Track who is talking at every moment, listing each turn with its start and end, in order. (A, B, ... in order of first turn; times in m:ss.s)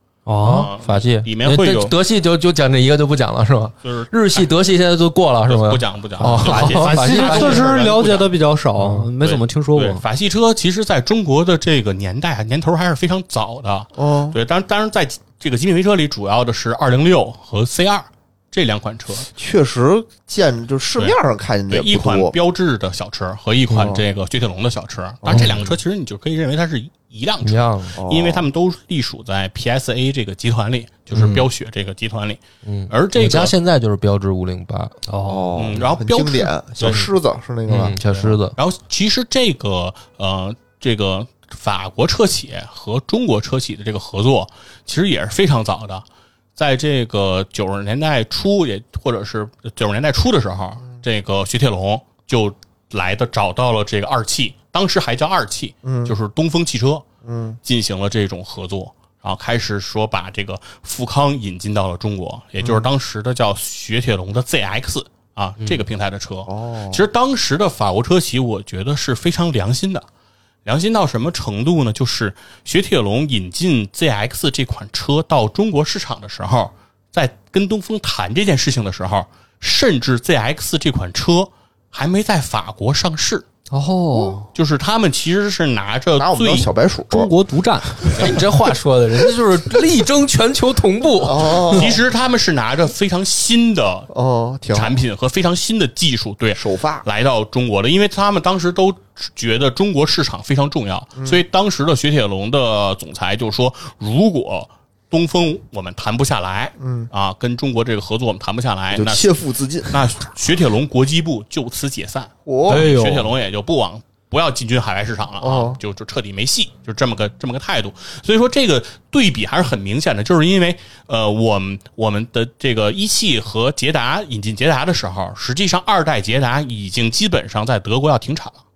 0:00.2-0:00.7 A
0:00.4-0:07.8 B
0:00.5-0:01.9 C
0:03.8-0:04.5 C
0:05.4-0:08.3 C
0:06.2-0:10.0 A
0:08.8-0:09.1 B
0:09.2-0:19.3 C
0:14.0-0:14.4 D
0:19.4-0:22.4 D
0:21.7-0:33.5 C
0:23.7-0:24.0 B
0:25.2-0:25.6 D
0:25.3-0:25.6 A
0:27.4-0:28.0 B
0:28.0-0:28.5 D
0:31.1-0:31.4 B
0:32.6-0:35.0 B
0:35.1-0:35.6 A
0:35.2-0:38.4 D
0:35.5-0:37.1 C
0:37.7-0:38.5 B
0:38.6-0:46.0 C
0:46.6-0:57.0 C
0:55.8-0:56.1 D
0:57.2-0:57.6 D
0:57.6-1:10.0 C
1:02.6-1:02.8 D
1:06.5-1:07.0 D
1:10.6-1:23.4 C
1:23.7-1:24.5 A
1:24.5-1:26.7 C
1:26.2-1:27.3 D
1:27.1-1:28.2 A
1:28.0-1:28.3 D
1:28.0-1:31.8 B
1:31.2-1:32.0 D
1:31.6-1:34.1 C
1:34.1-1:35.0 D
1:34.7-2:08.6 C
1:36.6-1:37.0 D
1:46.8-1:47.1 D
1:48.9-1:50.0 D
1:52.4-1:52.8 D
1:52.7-1:53.3 A
1:55.4-1:55.8 D